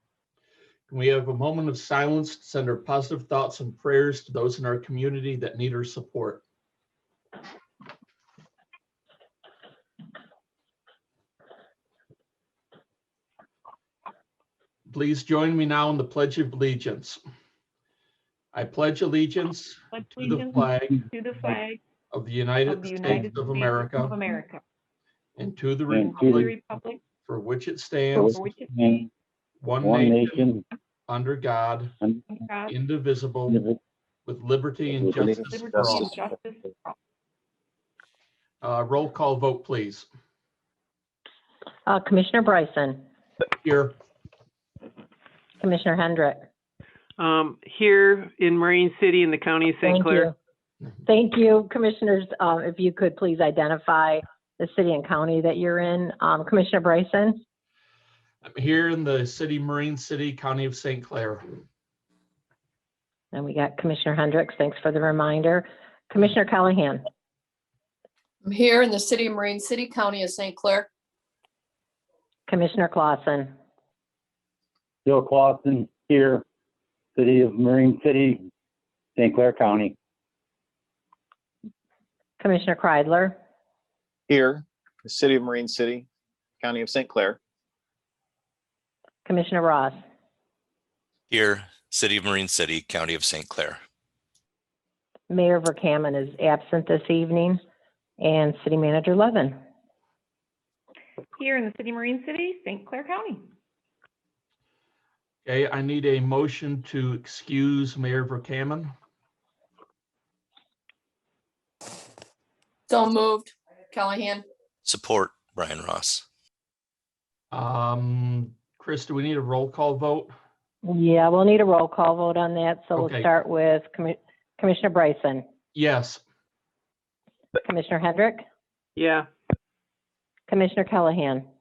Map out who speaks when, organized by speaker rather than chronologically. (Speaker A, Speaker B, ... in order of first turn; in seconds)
Speaker A: 0.9-6.4, 14.9-17.2, 18.5-20.9, 22.1-24.1, 25.4-26.4, 27.3-28.4, 29.6-30.5, 31.1-31.9, 32.7-33.6, 34.3-36.1, 38.6-40.1, 43.6-44.0, 58.5-61.5, 105.5-108.9, 117.5-120.3, 123.0-123.3, 125.8-126.2
Speaker B: 19.9-21.8, 22.7-24.6, 26.1-27.0, 28.2-29.0, 32.3-32.7, 35.5-36.9, 101.4-103.5
Speaker C: 25.9-26.5, 28.2-29.1, 29.8-30.6, 33.5-33.8, 75.0-76.4, 77.2-78.5, 79.2-80.0
Speaker D: 35.2-36.0, 84.3-86.1, 86.6-87.4
Speaker E: 41.9-43.0, 45.6-46.5, 49.8-50.3, 51.1-57.4, 63.3-67.1, 72.5-73.5, 82.4-83.4, 89.2-90.0, 95.3-97.6, 98.2-99.6, 120.9-125.5, 127.6-128.4, 130.5-131.5
Speaker F: 47.2-50.3, 129.0-129.3
Speaker G: 68.4-70.9, 112.9-114.5
Speaker H: 91.3-93.8, 114.8-116.2